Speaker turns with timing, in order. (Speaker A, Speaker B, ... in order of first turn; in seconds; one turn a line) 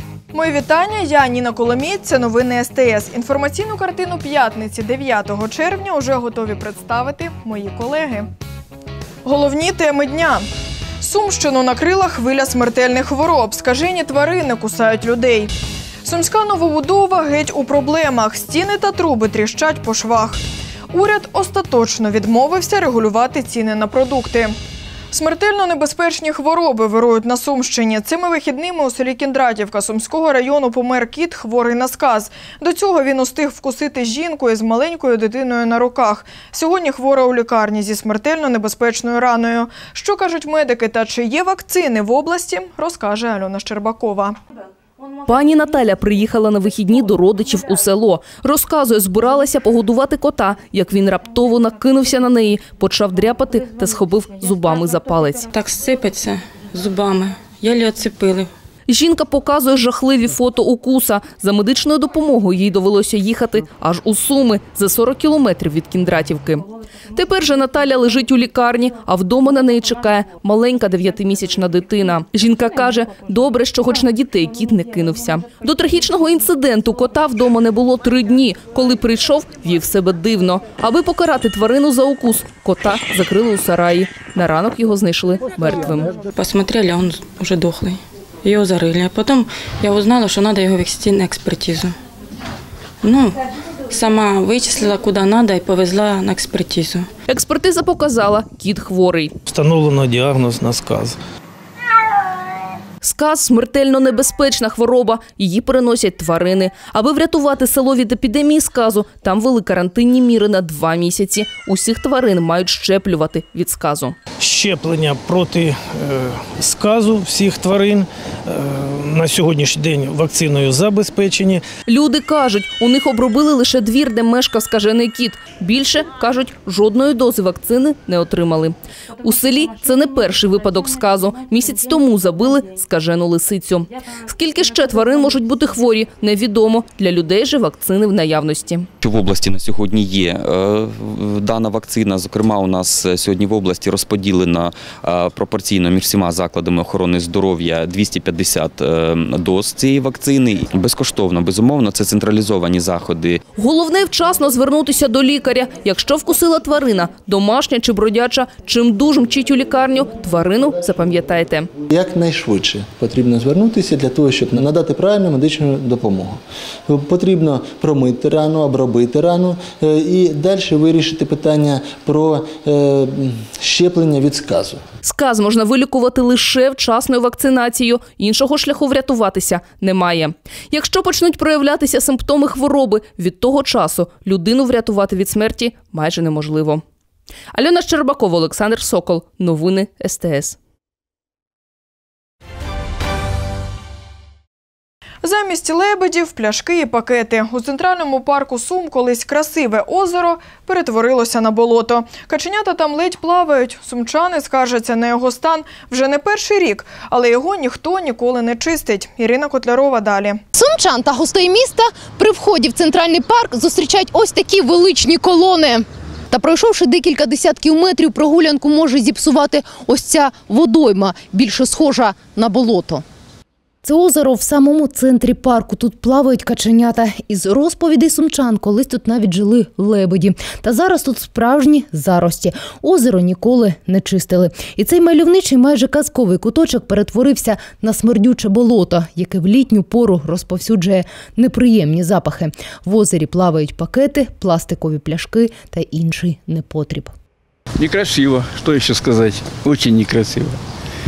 Speaker A: 0.3-8.3
Speaker A: 9.2-10.5
Speaker A: 11.0-15.5
Speaker A: 16.1-20.4
Speaker A: 20.9-24.6
Speaker A: 25.1-44.4
Speaker B: 45.3-55.5
Speaker C: 55.5-58.5
Speaker B: 58.9-86.1
Speaker C: 86.4-88.0
Speaker C: 88.5-91.9
Speaker C: 93.0-93.3
Speaker C: 94.0-97.0
Speaker B: 97.3-99.3
Speaker D: 99.5-101.2
Speaker B: 103.0-114.2
Speaker D: 114.4-121.6
Speaker B: 121.9-138.9
Speaker E: 139.0-140.9
Speaker E: 142.8-146.5
Speaker E: 147.3-151.1
Speaker E: 151.6-152.4
Speaker B: 153.6-161.7
Speaker F: 161.9-174.8
Speaker B: 175.0-186.8
Speaker B: 187.5-190.6
Speaker A: 195.2-210.4
Speaker G: 210.5-223.0
Speaker G: 223.8-247.1
Speaker H: 247.8-250.5